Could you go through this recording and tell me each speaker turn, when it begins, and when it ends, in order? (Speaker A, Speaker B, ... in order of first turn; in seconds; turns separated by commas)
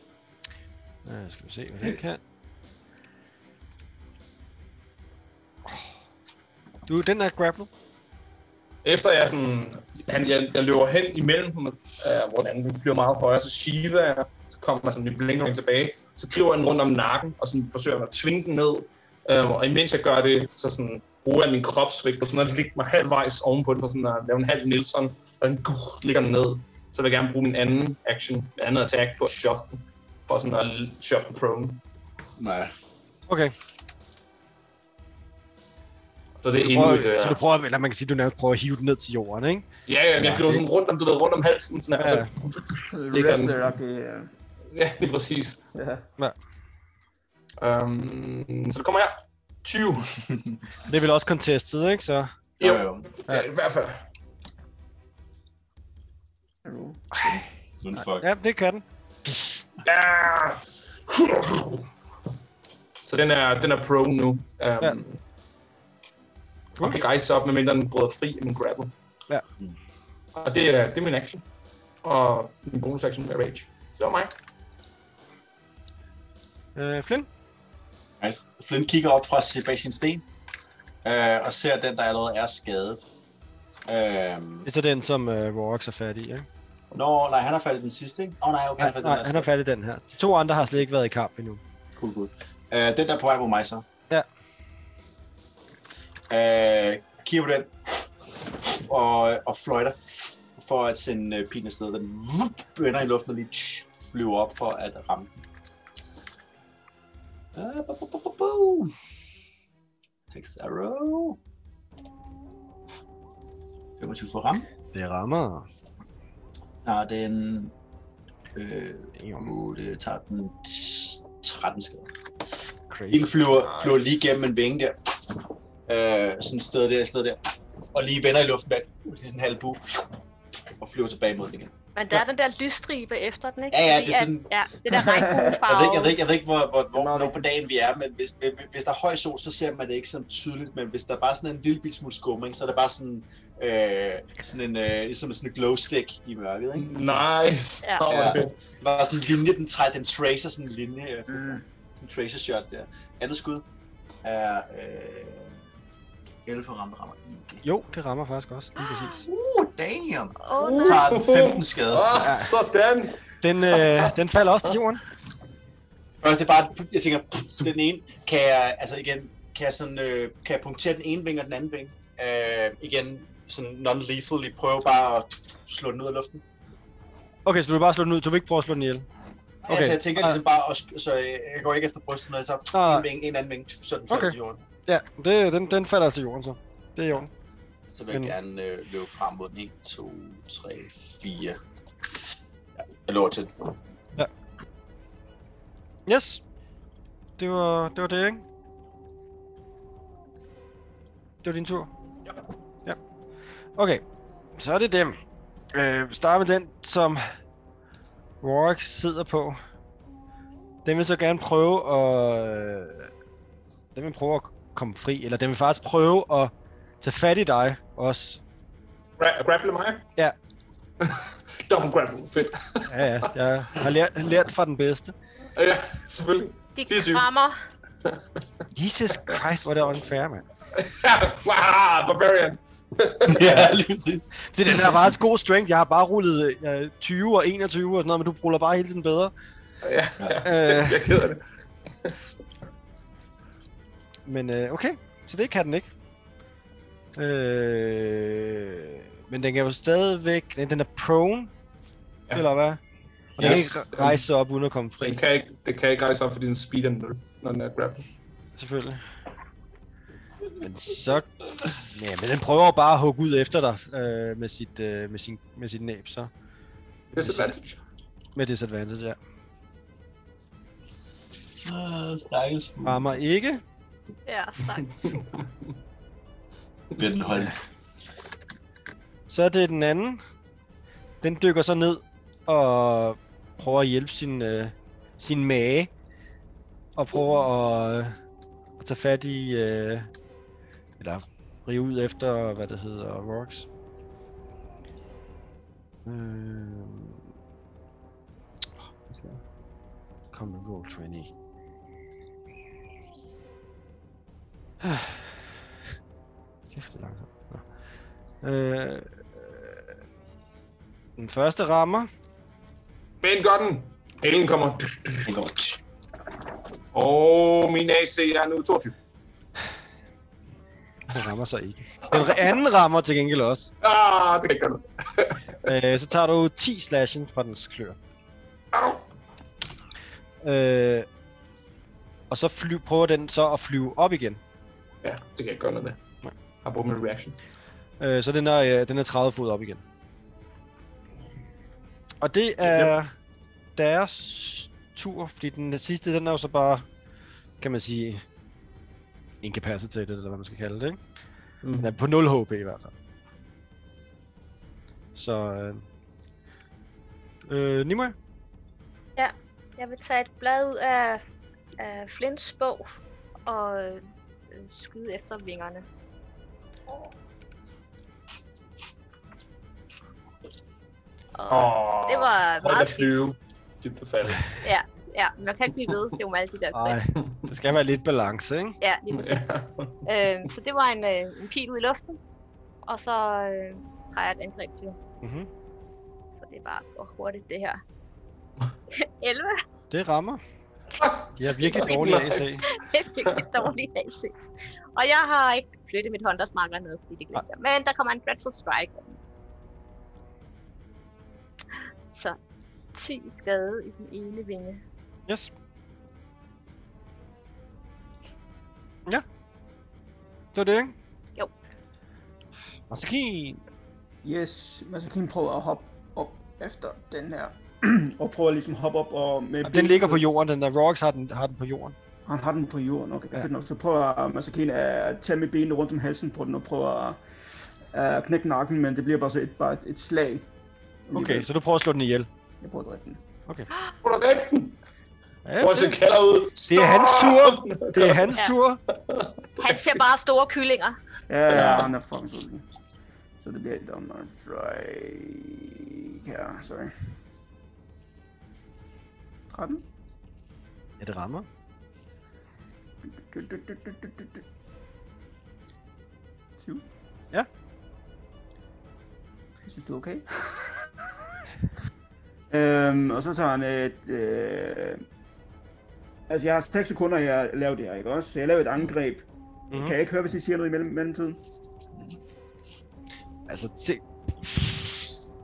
Speaker A: 1.1-2.2, Speaker A: 6.9-7.7, Speaker B: 8.8-31.8, Speaker C: 32.4-32.7, Speaker A: 33.3-33.5, Speaker B: 36.4-37.4, Speaker A: 36.7-39.6, Speaker B: 39.9-43.8, Speaker A: 40.2-40.6, Speaker A: 42.0-42.3, Speaker D: 42.9-44.3, Speaker B: 44.7-45.6, Speaker D: 45.8-46.0, Speaker B: 47.6-50.1, Speaker C: 50.2-50.6, Speaker A: 50.9-52.3, Speaker C: 52.6-53.1, Speaker B: 52.6-54.0, Speaker D: 56.6-57.1, Speaker C: 57.2-58.3, Speaker A: 58.0-59.6, Speaker B: 59.9-61.9, Speaker B: 63.0-65.2, Speaker B: 66.8-68.9, Speaker B: 70.4-71.4, Speaker B: 72.0-74.3, Speaker A: 76.7-77.3, Speaker C: 78.2-80.2, Speaker C: 81.0-83.1, Speaker C: 83.9-84.7, Speaker A: 84.7-86.5, Speaker C: 86.9-89.5, Speaker A: 88.8-91.6, Speaker C: 92.0-93.9, Speaker C: 96.3-105.4, Speaker C: 107.5-108.9, Speaker C: 110.3-111.4, Speaker C: 114.0-114.6, Speaker A: 114.9-115.7, Speaker C: 116.8-117.7, Speaker C: 118.5-122.1, Speaker A: 119.1-119.5, Speaker A: 122.9-123.3, Speaker C: 123.1-130.2, Speaker C: 130.8-131.7, Speaker E: 131.9-136.2, Speaker C: 133.7-134.5, Speaker D: 134.9-135.6, Speaker C: 135.6-146.9, Speaker B: 146.8-148.6, Speaker C: 148.0-153.6, Speaker D: 151.3-151.6, Speaker C: 154.2-155.6, Speaker C: 156.4-157.6, Speaker A: 157.6-159.3, Speaker C: 159.2-162.2, Speaker E: 160.4-161.0, Speaker B: 160.6-163.2, Speaker A: 162.2-162.5, Speaker A: 163.4-165.0, Speaker B: 163.7-164.1, Speaker C: 166.2-176.4, Speaker A: 177.4-179.1, Speaker C: 179.6-184.6, Speaker A: 179.7-180.4, Speaker A: 182.7-183.1, Speaker A: 184.1-184.4, Speaker A: 184.9-187.3, Speaker C: 187.9-191.6, Speaker C: 192.8-193.5, Speaker A: 196.1-196.4, Speaker A: 197.4-198.4, Speaker A: 201.4-201.9, Speaker A: 203.8-204.0, Speaker A: 204.6-205.2, Speaker A: 205.7-207.2, Speaker A: 208.4-209.6, Speaker A: 210.8-213.1, Speaker A: 213.9-218.4, Speaker B: 219.2-220.0, Speaker B: 221.0-222.9, Speaker A: 222.9-225.1, Speaker B: 225.6-227.3, Speaker E: 226.8-227.6, Speaker A: 228.7-230.4, Speaker B: 230.8-233.5, Speaker C: 233.2-235.1, Speaker A: 234.5-239.3, Speaker B: 239.8-241.4, Speaker A: 240.4-241.1, Speaker A: 244.3-245.9, Speaker A: 247.2-251.5, Speaker A: 252.3-252.8, Speaker B: 253.4-254.3, Speaker A: 253.4-255.2, Speaker B: 255.0-258.1, Speaker A: 258.6-259.0, Speaker A: 260.6-261.3, Speaker A: 261.9-266.3, Speaker B: 267.1-267.8, Speaker A: 267.2-267.5, Speaker A: 268.4-269.2, Speaker C: 271.6-273.2, Speaker A: 272.8-273.6, Speaker E: 274.3-275.2, Speaker C: 277.0-277.6, Speaker A: 279.3-280.2, Speaker A: 281.2-285.9, Speaker A: 286.9-288.2, Speaker A: 288.8-290.1, Speaker A: 291.0-293.7, Speaker A: 296.1-297.2, Speaker A: 299.1-299.4, Speaker A: 300.3-301.3, Speaker A: 304.8-305.5, Speaker A: 306.7-307.7, Speaker A: 308.4-309.9, Speaker A: 311.2-312.1, Speaker B: 313.2-315.4, Speaker C: 315.3-315.8, Speaker B: 316.9-318.9, Speaker A: 321.1-323.7, Speaker B: 323.8-325.4, Speaker A: 325.7-328.0, Speaker A: 330.4-331.1, Speaker A: 332.3-334.4, Speaker B: 335.0-336.0, Speaker B: 336.6-337.4, Speaker A: 338.0-339.8, Speaker A: 342.2-343.1, Speaker B: 342.6-342.9, Speaker A: 343.8-346.9, Speaker A: 347.6-348.2, Speaker A: 349.4-351.0, Speaker B: 351.6-351.9, Speaker A: 351.8-352.9, Speaker A: 355.1-355.8, Speaker A: 357.5-358.2, Speaker E: 359.2-361.2, Speaker E: 361.8-365.8, Speaker E: 371.4-373.1, Speaker B: 371.5-374.4, Speaker E: 374.6-377.0, Speaker A: 376.7-378.8, Speaker E: 378.8-379.3, Speaker B: 379.1-380.0, Speaker E: 380.1-382.2, Speaker E: 382.9-385.0, Speaker A: 385.2-385.5, Speaker E: 386.4-387.8, Speaker E: 388.9-389.6, Speaker A: 389.9-390.4, Speaker B: 391.0-392.7, Speaker A: 391.4-392.6, Speaker E: 391.6-394.3, Speaker E: 394.9-399.2, Speaker E: 402.1-402.4, Speaker E: 402.9-404.8, Speaker A: 410.5-410.9, Speaker A: 412.9-413.6, Speaker D: 414.2-420.2, Speaker A: 419.6-421.9, Speaker D: 422.3-427.2, Speaker D: 427.9-430.4, Speaker D: 431.1-431.5, Speaker A: 431.1-432.3, Speaker D: 432.6-433.2, Speaker B: 434.0-434.7, Speaker A: 435.4-436.0, Speaker B: 435.6-438.3, Speaker A: 436.6-438.8, Speaker B: 439.1-440.0, Speaker E: 439.6-441.0, Speaker D: 441.3-442.6, Speaker B: 441.5-441.9, Speaker C: 441.5-441.9, Speaker D: 443.4-446.9, Speaker D: 449.5-449.8, Speaker A: 451.0-451.5, Speaker D: 453.3-454.4, Speaker D: 459.7-460.8, Speaker D: 462.5-465.0, Speaker D: 466.3-471.4, Speaker A: 473.5-475.1